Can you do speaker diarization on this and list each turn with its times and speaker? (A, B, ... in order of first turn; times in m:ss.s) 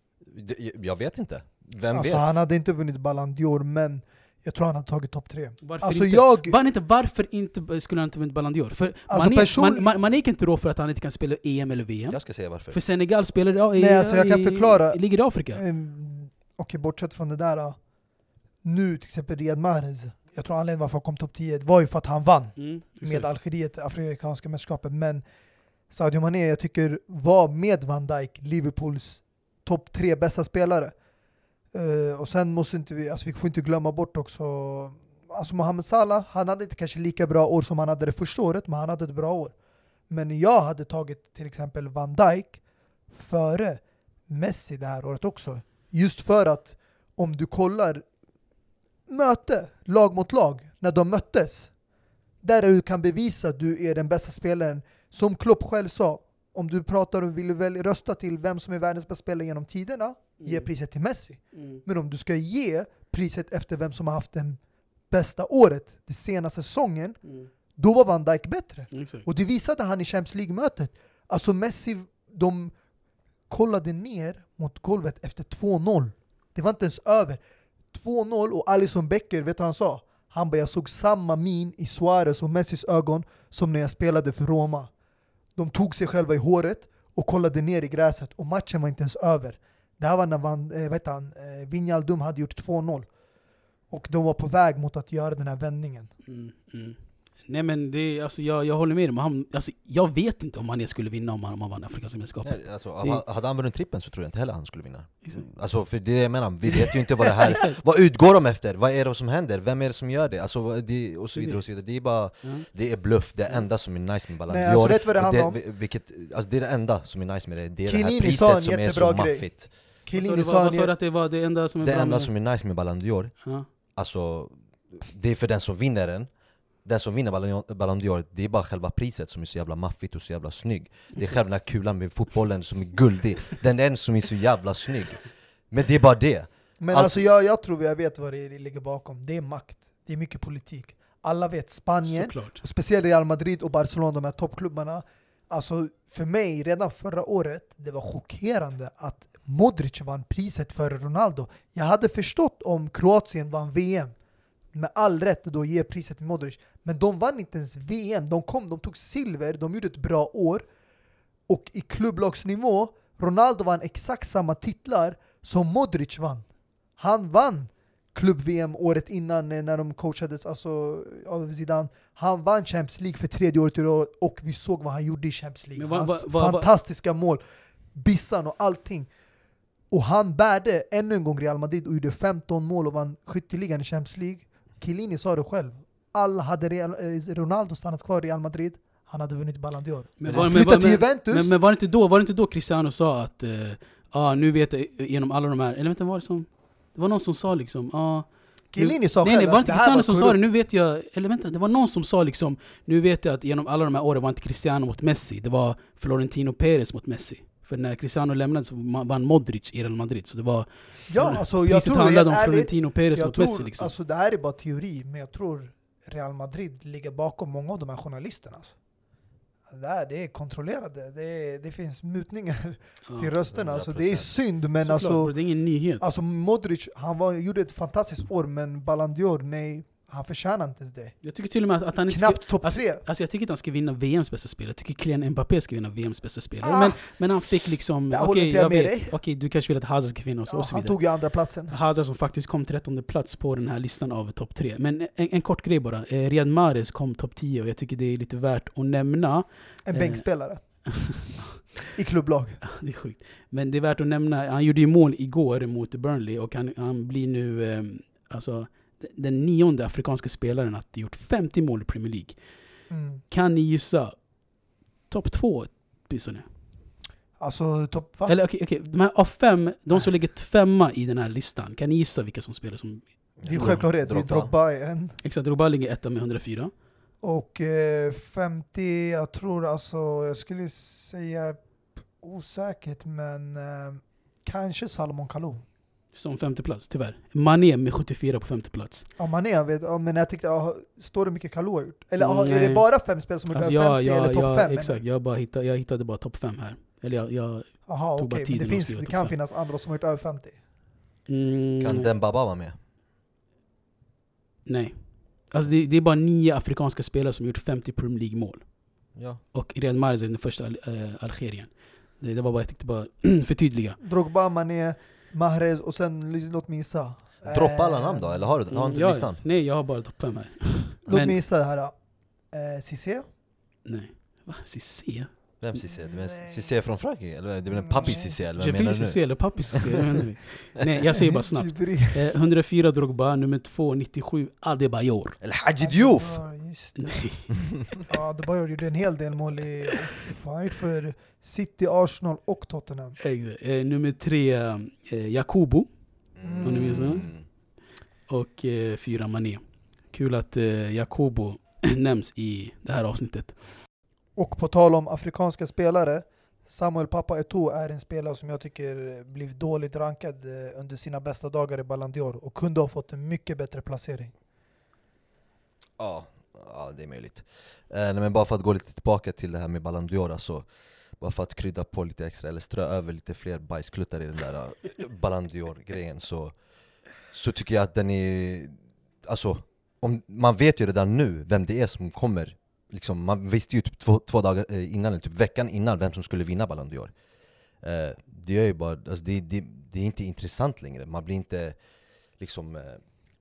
0:00.2-0:02.2 A
0:01.9-0:06.6 B
0:05.6-0:12.2 C
0:09.1-0:09.9 B
0:12.1-0:12.8 A
0:12.7-0:15.6 C
0:13.8-0:17.8 B
0:18.6-0:25.2 B
0:22.6-0:23.2 C
0:25.9-0:30.9 B
0:31.7-0:39.5 B
0:40.1-0:42.6 B
0:43.1-0:48.0 B
0:49.1-0:51.7 B
0:52.4-1:07.2 B
1:00.4-1:00.7 C
1:01.5-1:01.8 C
1:07.2-1:07.5 C
1:07.8-1:12.7 B
1:08.9-1:09.2 C
1:13.5-1:17.4 B
1:17.9-1:24.9 B
1:25.6-1:33.1 B
1:33.9-1:36.1 B
1:36.2-1:43.2 C
1:42.4-1:59.7 A
1:47.3-1:47.8 C
1:51.4-1:51.6 C
1:54.5-1:55.6 B
1:57.9-2:00.9 B
2:00.2-2:02.3 C
2:01.8-2:06.3 A
2:06.8-2:17.2 A
2:16.8-2:34.1 B
2:22.0-2:22.6 C
2:34.7-2:40.6 B
2:41.5-2:46.4 B
2:47.0-2:57.4 B
2:55.8-2:56.7 C
2:57.9-2:59.1 B
2:59.9-3:11.5 B
3:10.2-3:33.9 C
3:18.7-3:20.4 B
3:31.1-3:38.7 B
3:39.7-3:45.3 B
3:43.4-3:44.3 A
3:44.8-3:46.0 C
3:46.0-3:51.2 B
3:51.2-4:01.0 C
3:52.1-3:53.0 B
3:56.6-3:57.0 B
3:58.1-3:59.2 B
4:00.5-4:01.7 B
4:01.7-4:11.1 C
4:09.8-4:11.2 B
4:11.9-4:12.6 B
4:12.6-4:22.4 C
4:22.9-4:23.2 B
4:23.3-4:24.2 C
4:25.1-4:26.4 C
4:27.4-4:28.4 B
4:28.3-4:33.8 C
4:33.4-4:34.5 A
4:33.5-4:35.2 B
4:35.2-4:36.7 C
4:37.2-4:45.6 B
4:46.1-4:49.1 C
4:49.2-4:55.0 B
4:52.2-4:52.9 C
4:53.5-4:59.4 C
4:57.9-5:00.6 B
5:01.3-5:02.1 C
5:01.8-5:02.8 A
5:04.6-5:08.7 C
5:09.1-5:09.4 A
5:09.5-5:14.0 C
5:14.0-5:18.5 B
5:17.5-5:19.4 A
5:18.7-5:21.4 C
5:21.0-5:22.0 B
5:22.5-5:23.3 B
5:23.8-5:25.3 C
5:25.6-5:29.9 A
5:26.2-5:26.6 B
5:27.8-5:28.3 B
5:28.5-5:35.4 C
5:31.2-5:32.2 B
5:35.4-5:36.4 A
5:35.8-5:43.2 B
5:37.0-5:37.5 C
5:43.2-5:45.9 C
5:46.4-5:47.4 A
5:46.4-5:47.0 B
5:46.6-5:47.5 C
5:48.3-5:53.8 C
5:54.4-6:04.3 B
6:06.0-6:10.6 A
6:11.2-6:16.5 A
6:17.2-6:27.1 A
6:27.8-6:31.8 A
6:32.4-6:33.0 A